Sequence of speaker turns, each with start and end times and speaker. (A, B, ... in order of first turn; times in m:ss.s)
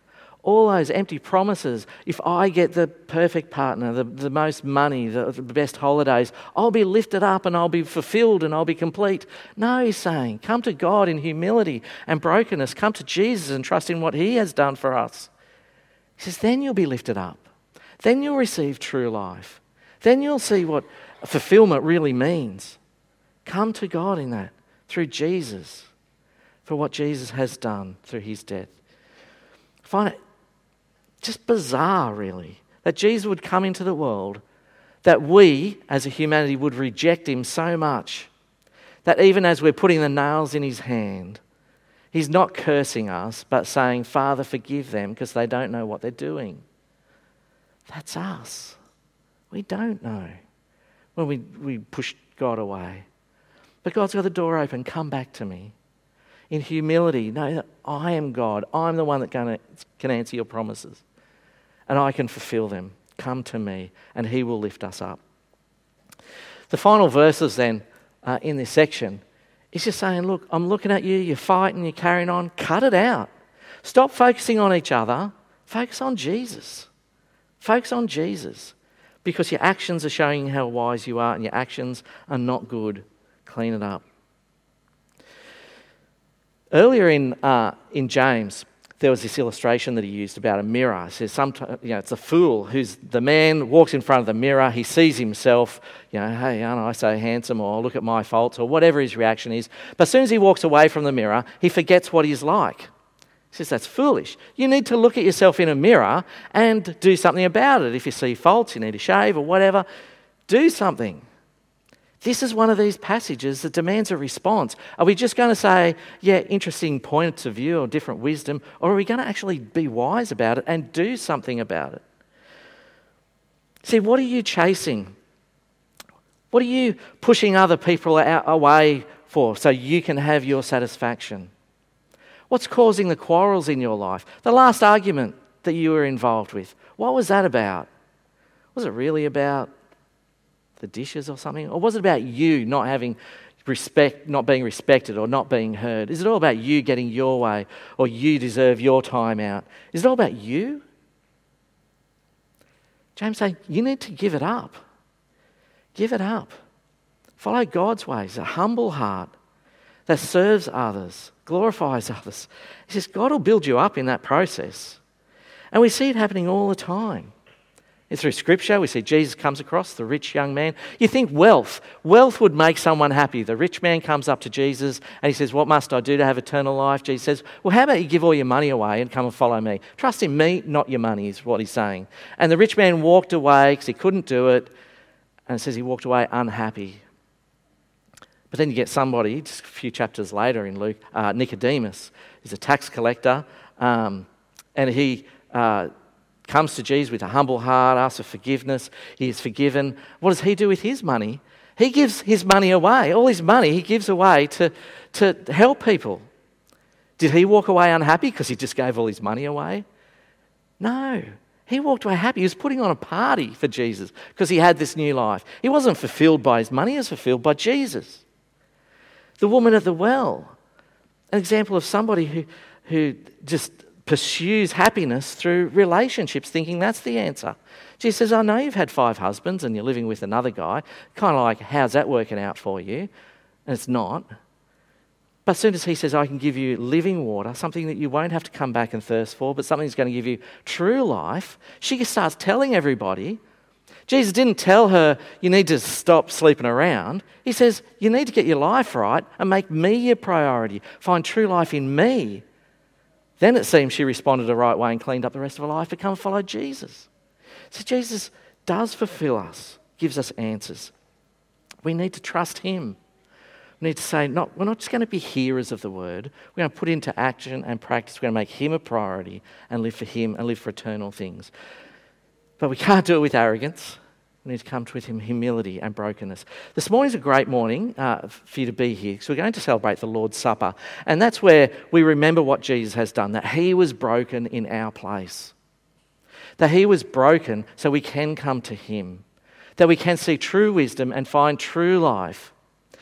0:00.4-0:15.3 A
0:16.2-0:17.4 A
0:18.0-0:22.8 A
0:23.4-0:25.9 A
0:26.6-0:28.7 A
0:29.8-0:30.2 A
0:31.2-0:34.4 A
0:35.0-0:38.3 A
0:39.0-0:41.4 A
0:42.1-0:46.6 A
0:47.9-0:48.8 A
0:49.5-0:50.4 A
0:51.1-0:53.1 A
0:53.8-0:55.7 A
0:56.5-1:01.0 A
1:01.9-1:05.2 A
1:06.7-1:13.3 A
1:13.8-1:16.9 A
1:17.6-1:24.0 A
1:26.7-1:42.9 A
1:43.5-1:49.8 A
1:50.5-1:51.2 A
1:52.2-2:02.0 A
2:03.8-2:05.1 A
2:06.5-2:11.5 A
2:12.5-2:17.9 A
2:18.7-2:19.7 A
2:20.8-2:30.8 A
2:33.2-2:34.8 A
2:35.9-2:36.6 A
2:37.4-2:39.3 A
2:40.1-2:45.0 A
2:45.7-2:47.3 A
2:48.1-3:04.7 A
3:05.5-3:07.0 A
3:08.5-3:15.9 A
3:16.4-3:26.3 A
3:27.2-3:29.8 A
3:30.8-3:38.2 A
3:39.4-3:40.5 A
3:41.3-3:53.1 A
3:53.7-3:54.3 A
3:55.4-4:03.4 A
4:04.1-4:12.4 A
4:13.4-4:17.1 A
4:17.7-4:20.9 A
4:21.8-4:23.0 A
4:23.8-4:31.5 A
4:32.6-4:45.5 A
4:46.6-4:49.2 A
4:49.8-4:52.5 A